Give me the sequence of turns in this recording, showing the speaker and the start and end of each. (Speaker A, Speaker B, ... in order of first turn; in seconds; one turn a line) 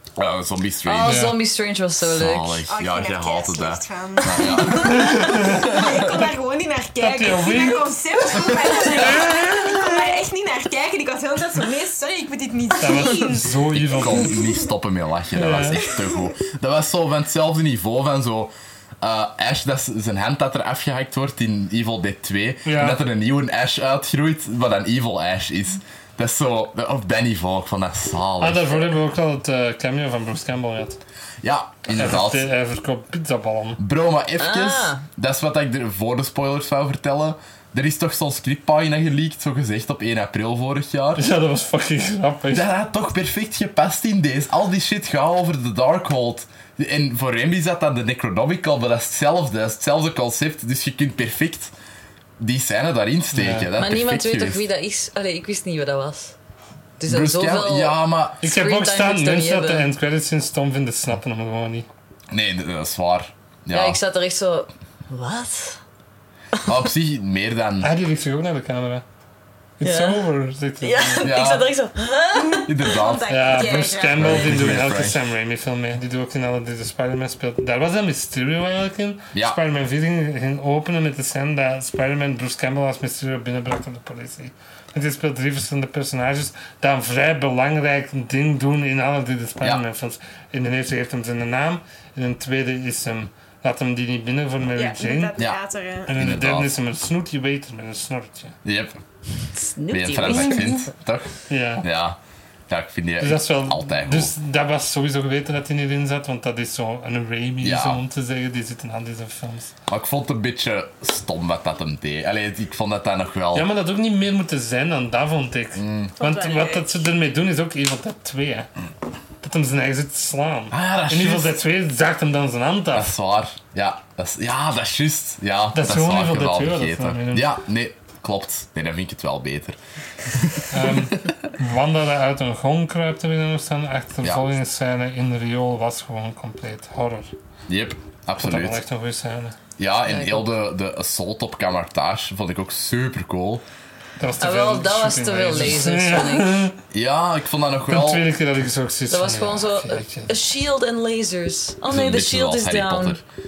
Speaker A: 0.1-1.3
Speaker B: 0.8-2.6
Speaker C: 1.1-1.4
Speaker A: 2.0-5.9
Speaker D: 2.7-14.6
Speaker C: 4.7-5.9
Speaker C: 7.0-7.9
Speaker C: 8.9-9.9
Speaker C: 12.8-14.4
Speaker A: 13.7-28.9
Speaker C: 15.3-15.9
Speaker D: 15.9-16.2
Speaker C: 22.6-23.0
Speaker C: 28.4-31.0
Speaker A: 31.4-32.5
Speaker C: 31.9-33.8
Speaker A: 33.8-41.2
Speaker B: 34.4-35.0
Speaker C: 41.2-42.6
Speaker A: 42.5-51.7
Speaker A: 52.4-54.6
Speaker C: 53.3-53.7
Speaker B: 53.7-56.4
Speaker B: 57.0-59.9
Speaker A: 57.0-58.4
Speaker C: 58.4-61.9
Speaker A: 62.3-64.0
Speaker B: 63.7-65.8
Speaker A: 66.6-67.9
Speaker C: 67.8-69.0
Speaker C: 69.8-71.3
Speaker B: 69.8-70.2
Speaker B: 70.8-72.9
Speaker A: 71.2-71.7
Speaker D: 72.5-74.8
Speaker A: 72.6-75.2
Speaker C: 73.3-95.3
Speaker D: 94.8-96.1
Speaker C: 96.0-98.6
Speaker A: 96.1-96.7
Speaker A: 98.6-99.0
Speaker B: 99.5-100.8
Speaker A: 99.9-102.2
Speaker D: 100.1-100.7
Speaker C: 101.5-101.9
Speaker A: 102.7-104.3
Speaker C: 103.2-109.7
Speaker A: 107.6-108.0
Speaker A: 109.9-113.7
Speaker C: 113.5-118.7
Speaker A: 115.7-116.1
Speaker D: 116.2-117.1
Speaker C: 119.4-123.1
Speaker A: 120.7-121.6
Speaker A: 122.9-131.3
Speaker C: 125.7-127.5
Speaker C: 130.7-137.3
Speaker A: 137.7-138.8
Speaker C: 138.4-139.6
Speaker A: 139.8-143.6
Speaker B: 140.1-140.5
Speaker C: 144.2-146.8
Speaker B: 144.4-146.6
Speaker A: 146.9-148.2
Speaker C: 147.9-150.3
Speaker B: 149.1-153.2
Speaker A: 151.9-153.2